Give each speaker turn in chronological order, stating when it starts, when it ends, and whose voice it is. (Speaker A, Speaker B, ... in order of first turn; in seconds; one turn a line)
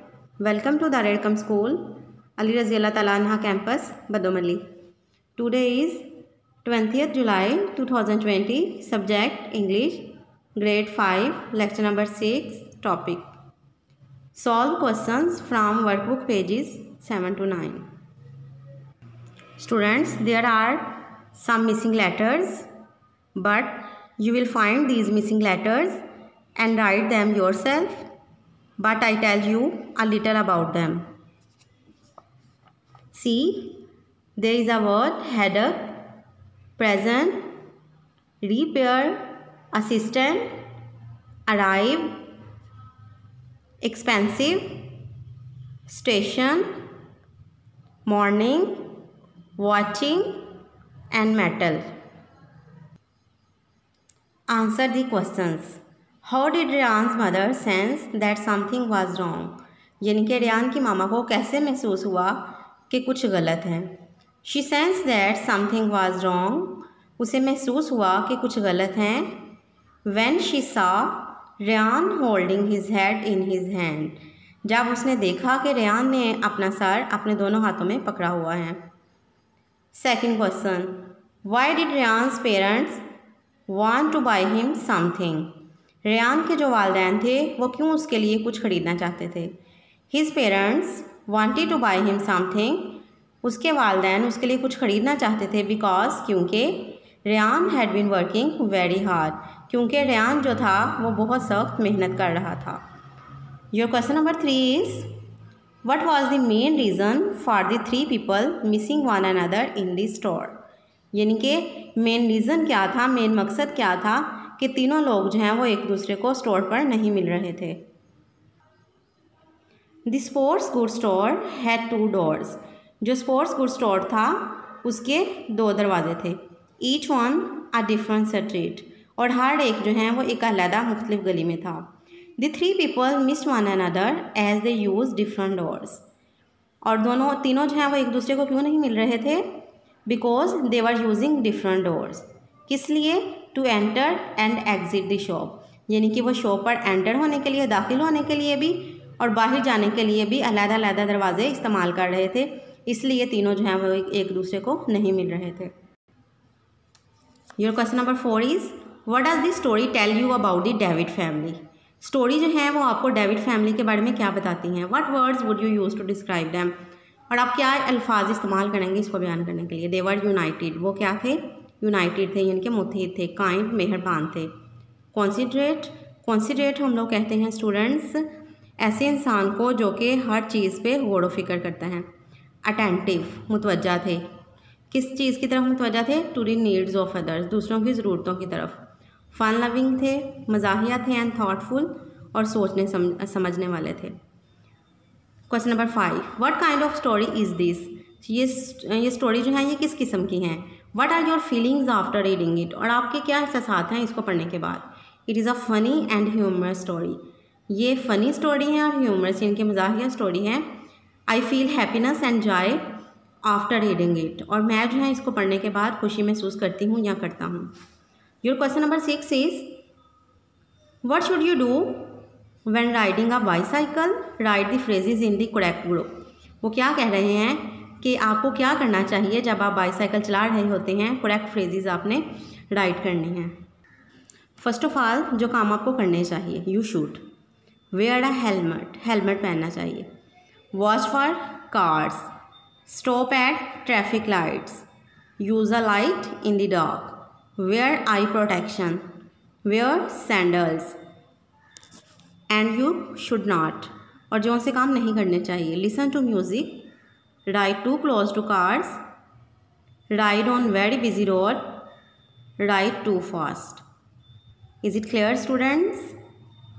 Speaker A: 0.4-4.7
Speaker A: 5.4-6.1
Speaker A: 6.6-13.3
Speaker A: 14.3-17.9
Speaker A: 19.6-22.7
Speaker A: 23.4-26.0
Speaker A: 26.6-28.1
Speaker A: 28.8-31.1
Speaker A: 33.1-33.9
Speaker A: 34.4-36.0
Speaker A: 36.8-37.5
Speaker A: 38.4-40.6
Speaker A: 41.5-42.2
Speaker A: 43.8-45.0
Speaker A: 45.9-46.8
Speaker A: 48.1-48.9
Speaker A: 49.6-50.4
Speaker A: 51.1-51.9
Speaker A: 54.5-69.4
Speaker A: 70.1-78.8
Speaker A: 79.9-83.0
Speaker A: 83.7-85.5
Speaker A: 86.0-89.5
Speaker A: 90.1-102.8
Speaker A: 103.7-105.1
Speaker A: 105.8-110.6
Speaker A: 111.1-117.8
Speaker A: 120.1-136.0
Speaker A: 136.8-155.7
Speaker A: 157.6-166.8
Speaker A: 167.3-174.5
Speaker A: 175.1-178.3
Speaker A: 178.8-182.1
Speaker A: 182.6-184.3
Speaker A: 184.9-188.8
Speaker A: 189.3-194.2
Speaker A: 195.5-210.7
Speaker A: 211.3-212.8
Speaker A: 213.4-217.7
Speaker A: 218.4-219.8
Speaker A: 221.0-233.5
Speaker A: 234.6-237.2
Speaker A: 237.9-240.1
Speaker A: 240.7-242.3
Speaker A: 242.9-244.8
Speaker A: 245.4-249.1
Speaker A: 249.7-251.0
Speaker A: 252.5-256.9
Speaker A: 257.5-259.0
Speaker A: 260.1-261.7
Speaker A: 262.6-263.8
Speaker A: 264.8-266.2